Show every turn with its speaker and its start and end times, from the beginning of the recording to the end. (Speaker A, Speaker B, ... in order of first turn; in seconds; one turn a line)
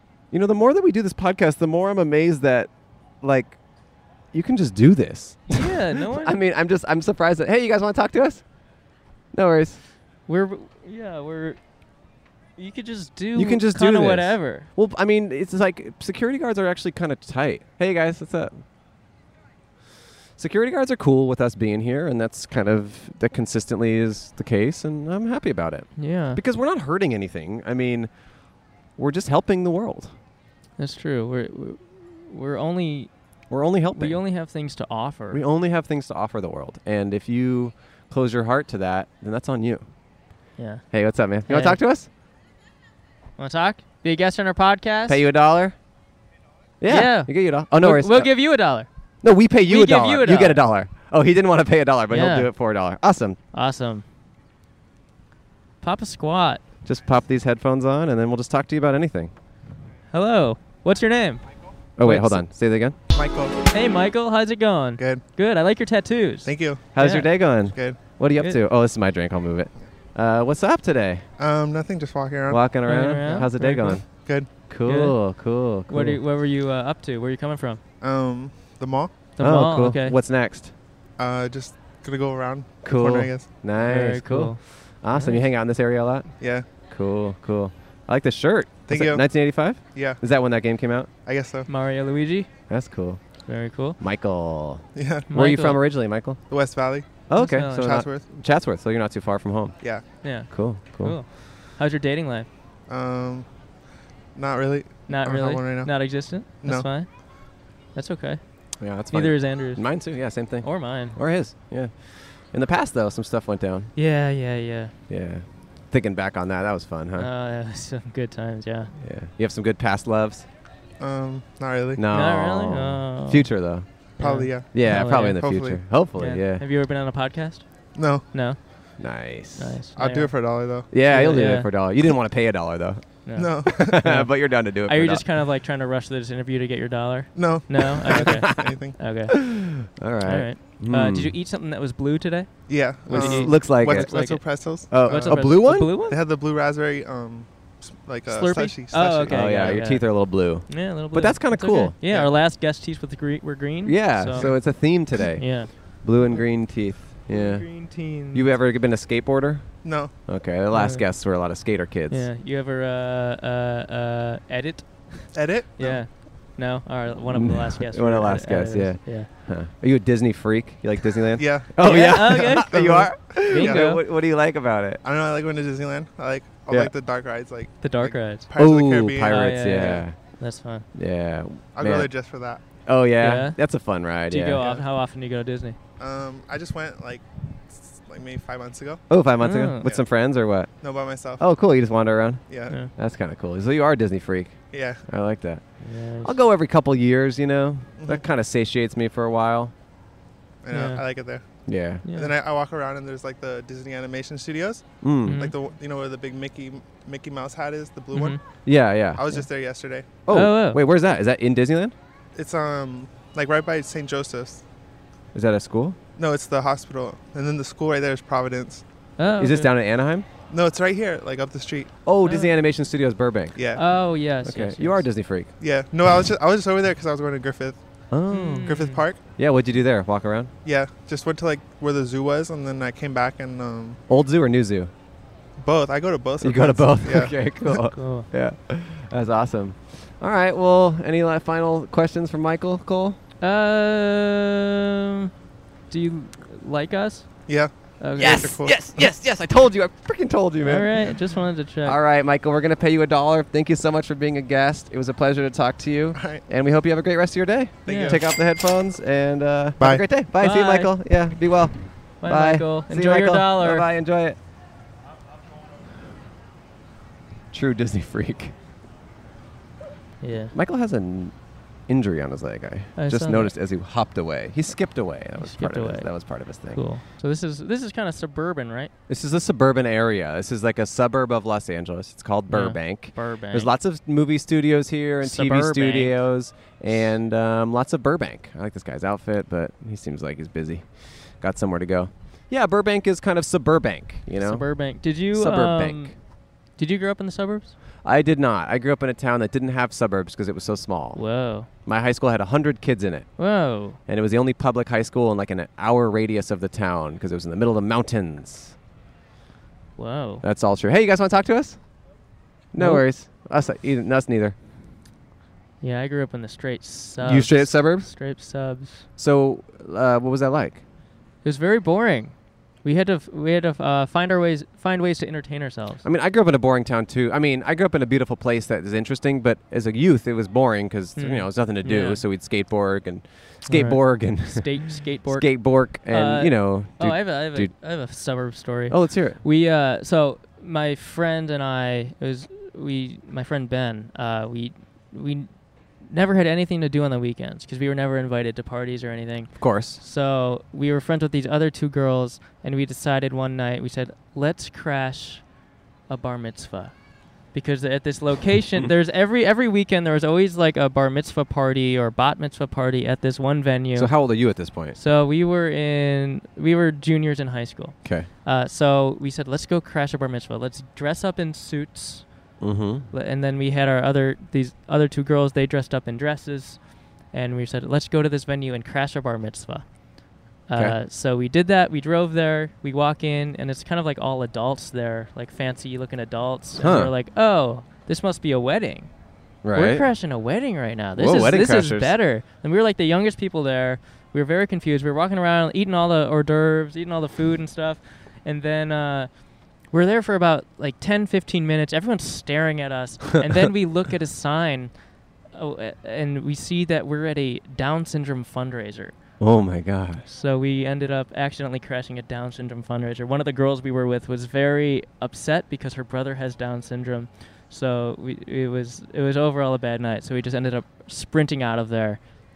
Speaker A: 0.3-2.7
Speaker A: 3.2-3.5
Speaker A: 4.3-8.4
Speaker B: 5.5-6.3
Speaker A: 9.3-9.8
Speaker B: 10.3-11.6
Speaker B: 12.6-14.7
Speaker A: 13.3-18.6
Speaker A: 20.4-28.1
Speaker B: 26.0-26.4
Speaker A: 29.0-30.1
Speaker B: 30.8-33.1
Speaker A: 33.5-34.2
Speaker B: 33.9-35.4
Speaker A: 35.3-39.8
Speaker B: 40.6-40.8
Speaker A: 40.9-42.1
Speaker B: 41.5-41.8
Speaker B: 43.4-45.2
Speaker A: 45.1-45.7
Speaker A: 46.8-48.3
Speaker B: 46.9-48.9
Speaker A: 49.2-53.4
Speaker B: 49.6-50.6
Speaker B: 52.1-52.5
Speaker B: 53.5-54.0
Speaker B: 55.8-56.6
Speaker A: 56.8-59.3
Speaker B: 60.1-61.4
Speaker A: 62.0-63.0
Speaker B: 62.0-62.4
Speaker C: 63.1-63.7
Speaker B: 63.7-67.3
Speaker C: 65.0-65.2
Speaker C: 66.4-67.0
Speaker A: 66.9-71.2
Speaker C: 67.7-68.0
Speaker C: 71.4-72.6
Speaker A: 72.5-74.1
Speaker B: 72.8-74.0
Speaker C: 73.2-73.5
Speaker C: 74.1-74.5
Speaker A: 74.7-76.2
Speaker B: 74.8-75.2
Speaker B: 75.9-77.8
Speaker C: 78.0-79.2
Speaker B: 79.4-80.2
Speaker A: 79.4-80.7
Speaker C: 81.2-83.5
Speaker A: 82.8-91.1
Speaker B: 83.8-85.4
Speaker C: 86.4-86.7
Speaker C: 88.9-89.2
Speaker C: 89.9-90.2
Speaker C: 91.2-91.7
Speaker B: 91.7-92.5
Speaker A: 92.7-93.2
Speaker B: 93.5-94.0
Speaker A: 94.0-96.4
Speaker C: 95.0-95.3
Speaker B: 95.3-95.8
Speaker C: 96.5-98.3
Speaker A: 97.3-99.7
Speaker B: 97.3-98.0
Speaker B: 100.2-102.5
Speaker A: 100.5-101.2
Speaker C: 102.9-103.5
Speaker C: 104.3-106.9
Speaker B: 105.1-107.1
Speaker B: 107.9-108.4
Speaker A: 108.8-113.9
Speaker B: 109.1-110.0
Speaker B: 110.6-111.2
Speaker B: 114.0-114.9
Speaker A: 115.1-117.3
Speaker B: 117.2-118.9
Speaker A: 119.0-120.5
Speaker C: 121.0-122.0
Speaker A: 122.0-123.8
Speaker B: 122.1-123.5
Speaker B: 124.2-125.5
Speaker C: 124.2-125.8
Speaker A: 124.7-126.6
Speaker B: 126.2-127.7
Speaker C: 127.9-128.3
Speaker B: 128.3-128.6
Speaker A: 129.0-129.8
Speaker B: 129.6-130.3
Speaker C: 129.9-130.9
Speaker A: 130.9-133.0
Speaker B: 131.0-131.7
Speaker B: 133.2-134.3
Speaker C: 133.3-134.0
Speaker A: 133.7-135.2
Speaker B: 134.8-139.4
Speaker C: 137.3-139.0
Speaker A: 137.8-138.8
Speaker A: 139.3-141.3
Speaker B: 140.2-142.5
Speaker C: 142.7-149.8
Speaker B: 143.1-146.2
Speaker A: 143.1-144.3
Speaker A: 144.9-145.9
Speaker B: 148.3-155.7
Speaker A: 149.3-151.9
Speaker C: 152.0-152.3
Speaker A: 153.8-157.7
Speaker C: 154.3-154.6
Speaker B: 157.3-158.5
Speaker A: 158.3-159.7
Speaker C: 159.8-160.1
Speaker A: 160.2-162.2
Speaker B: 160.7-161.0
Speaker B: 162.1-169.3
Speaker C: 165.3-166.0
Speaker A: 167.3-175.0
Speaker C: 171.3-173.9
Speaker B: 171.8-174.0
Speaker C: 175.0-180.0
Speaker B: 177.8-178.5
Speaker A: 178.6-180.2
Speaker B: 179.2-180.9
Speaker A: 180.9-182.1
Speaker C: 181.8-182.8
Speaker A: 182.8-184.6
Speaker B: 183.2-183.6
Speaker B: 184.3-185.8
Speaker C: 184.6-184.8
Speaker C: 186.0-189.0
Speaker A: 189.1-190.7
Speaker B: 189.4-189.9
Speaker C: 190.8-191.4
Speaker A: 191.4-192.4
Speaker C: 192.5-192.8
Speaker A: 192.9-195.6
Speaker C: 194.7-195.0
Speaker B: 195.8-196.4
Speaker A: 196.2-199.7
Speaker C: 198.0-198.2
Speaker C: 200.6-208.4
Speaker B: 200.7-201.0
Speaker A: 201.7-202.0
Speaker B: 202.0-202.3
Speaker A: 205.0-205.5
Speaker B: 205.2-205.5
Speaker B: 208.1-208.4
Speaker A: 208.6-209.2
Speaker C: 209.2-210.2
Speaker A: 210.3-211.9
Speaker B: 210.3-210.8
Speaker C: 212.3-214.6
Speaker A: 215.3-216.0
Speaker C: 216.2-218.8
Speaker B: 219.2-219.7
Speaker A: 219.4-220.2
Speaker C: 220.5-221.9
Speaker A: 222.0-223.5
Speaker B: 222.2-222.5
Speaker C: 223.6-223.8
Speaker B: 223.7-225.0
Speaker A: 224.4-225.5
Speaker C: 225.6-227.8
Speaker A: 228.1-228.7
Speaker B: 228.3-229.0
Speaker C: 228.6-229.2
Speaker A: 229.4-230.5
Speaker C: 230.6-234.0
Speaker A: 234.1-234.9
Speaker C: 235.6-237.5
Speaker A: 236.4-243.2
Speaker B: 237.8-238.3
Speaker B: 243.4-245.3
Speaker B: 245.9-247.3
Speaker C: 247.5-249.1
Speaker B: 248.0-248.6
Speaker A: 248.2-251.0
Speaker B: 250.6-252.0
Speaker A: 251.8-264.4
Speaker C: 256.1-256.4
Speaker B: 257.9-258.2
Speaker C: 257.9-258.3
Speaker B: 260.4-260.9
Speaker B: 262.2-263.9
Speaker A: 267.5-268.5
Speaker B: 270.2-270.5
Speaker A: 270.5-271.3
Speaker A: 271.9-276.8
Speaker B: 272.9-273.5
Speaker B: 275.4-276.1
Speaker B: 276.7-278.9
Speaker A: 279.1-294.7
Speaker B: 282.5-283.7
Speaker B: 285.2-286.1
Speaker B: 294.4-296.1
Speaker A: 295.3-296.1
Speaker B: 296.8-297.7
Speaker A: 298.0-301.2
Speaker B: 301.1-301.7
Speaker A: 301.8-303.3
Speaker B: 303.4-304.0
Speaker A: 304.1-308.7
Speaker B: 310.0-310.4
Speaker A: 310.4-311.8
Speaker A: 312.7-314.5
Speaker B: 312.8-313.0
Speaker B: 315.8-319.1
Speaker A: 317.2-318.1
Speaker A: 319.2-320.8
Speaker B: 321.4-326.0
Speaker A: 326.0-337.7
Speaker B: 331.2-332.2
Speaker B: 333.7-345.5
Speaker A: 338.9-339.4
Speaker B: 346.0-355.4
Speaker A: 349.6-350.0
Speaker B: 356.1-356.9
Speaker B: 357.5-372.3
Speaker A: 363.9-365.0
Speaker A: 372.6-373.1
Speaker B: 373.1-379.9
Speaker B: 380.7-389.1
Speaker A: 386.8-387.1
Speaker A: 389.6-390.1
Speaker B: 389.7-399.3
Speaker A: 391.1-392.1
Speaker B: 399.9-404.9
Speaker B: 405.5-409.1
Speaker A: 409.4-410.2
Speaker B: 410.2-422.2